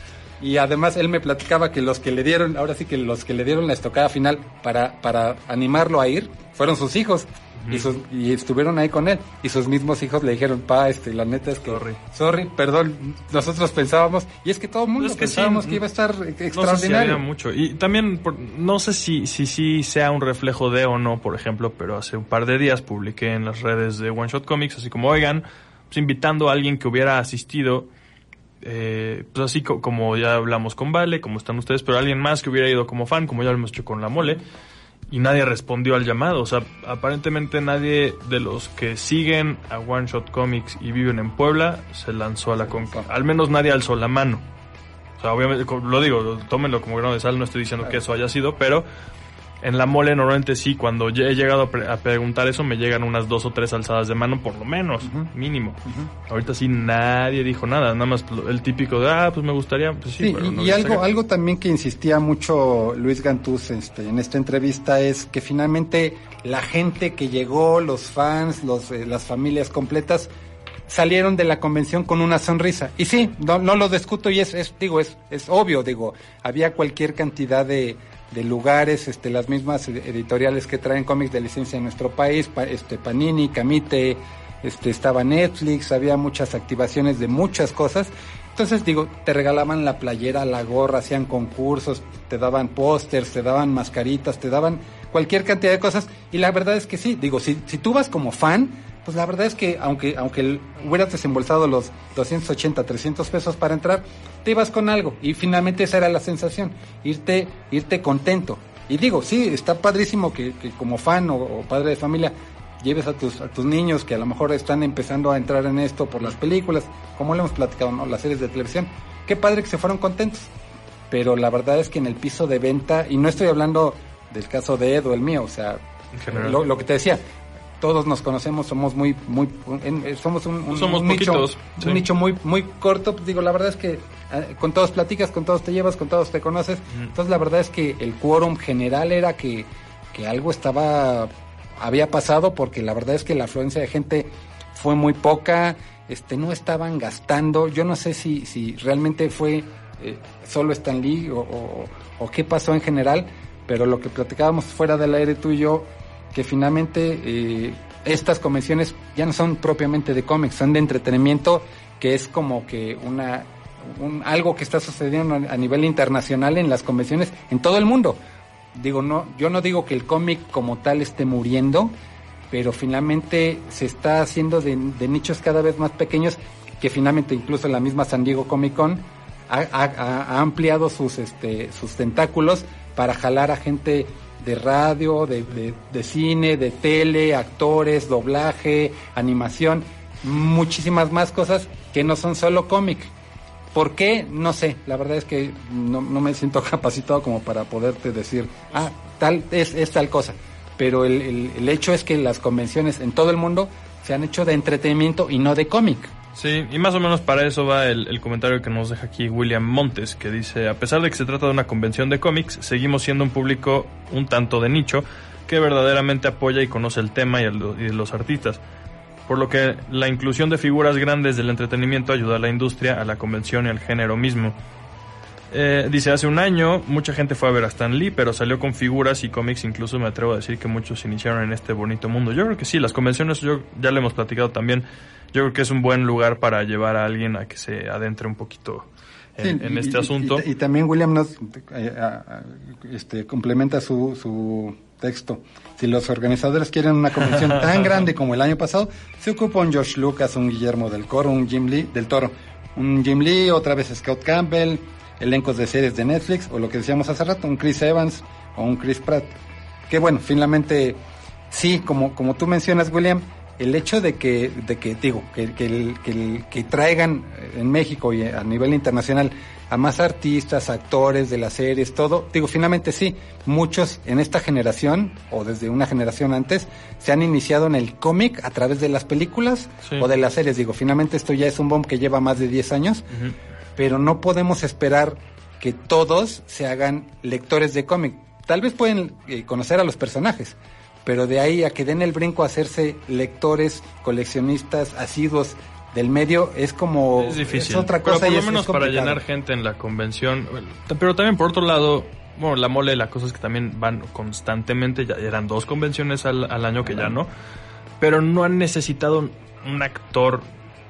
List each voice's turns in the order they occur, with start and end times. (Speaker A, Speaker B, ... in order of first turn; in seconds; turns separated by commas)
Speaker A: 0.4-17.2, Speaker B: 7.6-7.9, Speaker B: 11.7-12.0, Speaker B: 15.0-15.8, Speaker B: 16.5-27.9, Speaker B: 28.6-34.4, Speaker B: 35.1-44.4, Speaker A: 42.6-43.1, Speaker B: 45.2-48.9, Speaker B: 49.6-61.0, Speaker A: 55.0-55.3, Speaker A: 55.9-56.1, Speaker A: 60.2-70.3, Speaker A: 70.9-120.5, Speaker A: 121.1-127.2, Speaker B: 126.1-126.8, Speaker A: 127.8-168.2, Speaker B: 130.7-132.0, Speaker A: 168.7-171.9, Speaker A: 172.5-193.1, Speaker A: 193.7-206.1, Speaker B: 206.3-218.6, Speaker B: 219.3-224.6, Speaker B: 225.5-240.5, Speaker A: 239.4-259.3, Speaker B: 247.3-248.0, Speaker A: 259.9-283.1, Speaker A: 283.8-299.2, Speaker B: 297.2-307.3, Speaker A: 306.9-307.2, Speaker B: 308.0-310.5